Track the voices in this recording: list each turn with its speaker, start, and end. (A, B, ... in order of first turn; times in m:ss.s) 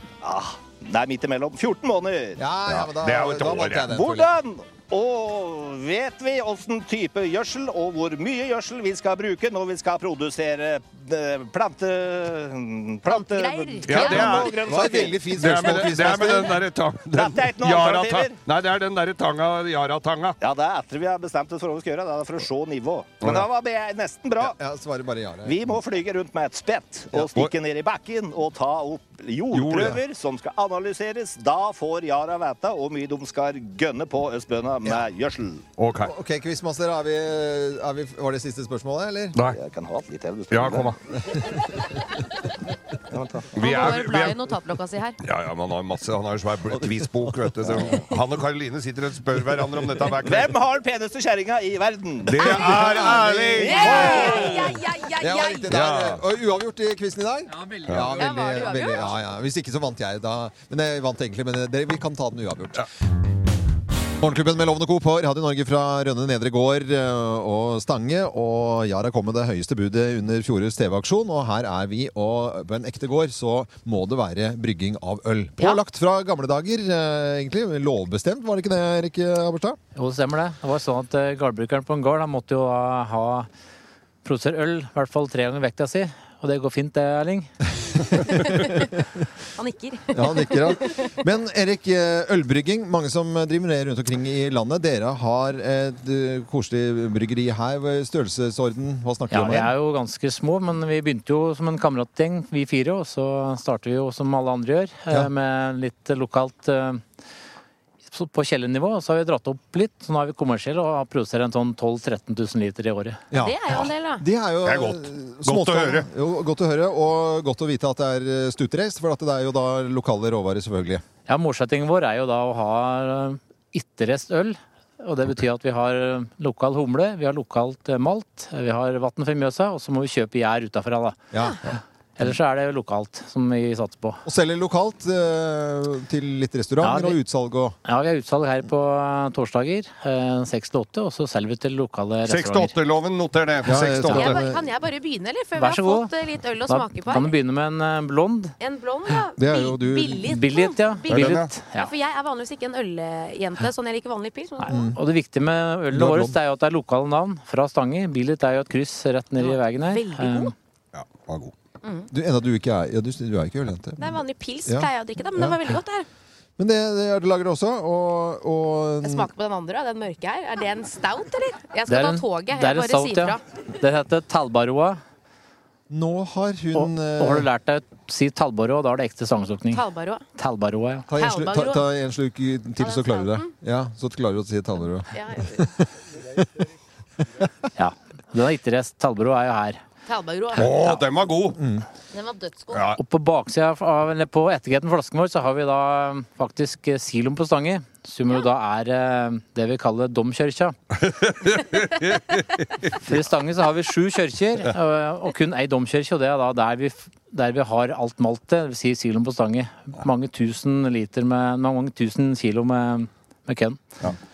0:00.2-0:02.4 A
0:02.4-0:04.3 B
0:02.7-0:03.9 C
0:03.9-0:15.3 A
0:13.1-0:14.5 D
0:13.8-0:14.6 C
0:13.9-0:16.6 B
0:15.3-0:20.4 C
0:17.1-0:18.4 A
0:20.4-0:24.6 A
0:23.2-0:23.5 C
0:24.4-0:25.6 B
0:25.4-0:35.6 A
0:27.1-0:27.5 C
0:29.5-0:30.0 C
0:35.8-0:36.1 C
0:36.0-0:39.4 B
0:39.4-0:40.9 A
0:40.5-0:41.0 C
0:43.1-0:43.5 A
0:43.5-0:44.4 C
0:43.6-0:45.2 D
0:45.2-0:50.5 C
0:47.6-0:47.9 B
0:50.2-0:52.5 A
0:52.2-0:54.6 C
0:52.6-0:54.5 B
0:53.6-0:54.5 A
0:53.6-0:55.7 D
0:55.2-1:02.8 B
0:55.7-0:56.2 C
0:57.9-0:58.2 C
0:58.1-0:59.2 D
1:04.2-1:19.8 B
1:20.0-1:23.5 E
1:24.2-1:27.5 E
1:28.1-1:29.0 B
1:29.6-1:31.1 D
1:30.1-1:39.7 B
1:39.3-1:47.0 E
1:48.1-1:53.2 E
1:53.3-2:01.0 B
1:53.3-1:54.2 D
1:54.6-1:56.1 C
2:01.3-2:11.2 E
2:11.3-2:11.7 B
2:12.2-2:14.2 E
2:14.2-2:17.8 B
2:16.8-2:17.2 E
2:17.8-2:22.8 E
2:22.2-2:24.3 C
2:23.6-2:24.6 B
2:24.1-2:27.4 D
2:25.6-2:26.1 E
2:26.6-2:28.5 E
2:28.6-2:34.7 D
2:29.4-2:30.3 B
2:30.3-2:31.9 E
2:31.1-2:31.5 C
2:34.6-2:40.5 E
2:34.7-2:35.0 B
2:35.9-2:36.4 B
2:39.4-2:40.5 D
2:40.9-2:41.5 C
2:41.8-2:42.1 D
2:42.1-2:44.1 B
2:44.0-2:46.1 D
2:44.7-2:45.6 B
2:46.6-2:49.3 B
2:49.0-2:53.4 D
2:51.9-2:55.0 E
2:55.9-2:57.5 B
2:56.7-2:59.8 E
2:59.7-3:00.2 D
3:00.4-3:01.1 E
3:01.1-3:05.9 B
3:01.2-3:01.8 D
3:02.8-3:03.5 D
3:05.1-3:05.7 D
3:07.8-3:09.8 E
3:10.1-3:11.0 D
3:10.5-3:11.6 C
3:11.6-3:11.8 B
3:12.1-3:12.8 D
3:12.7-3:13.0 C
3:13.0-3:20.8 E
3:21.0-3:23.0 C
3:23.1-3:33.9 E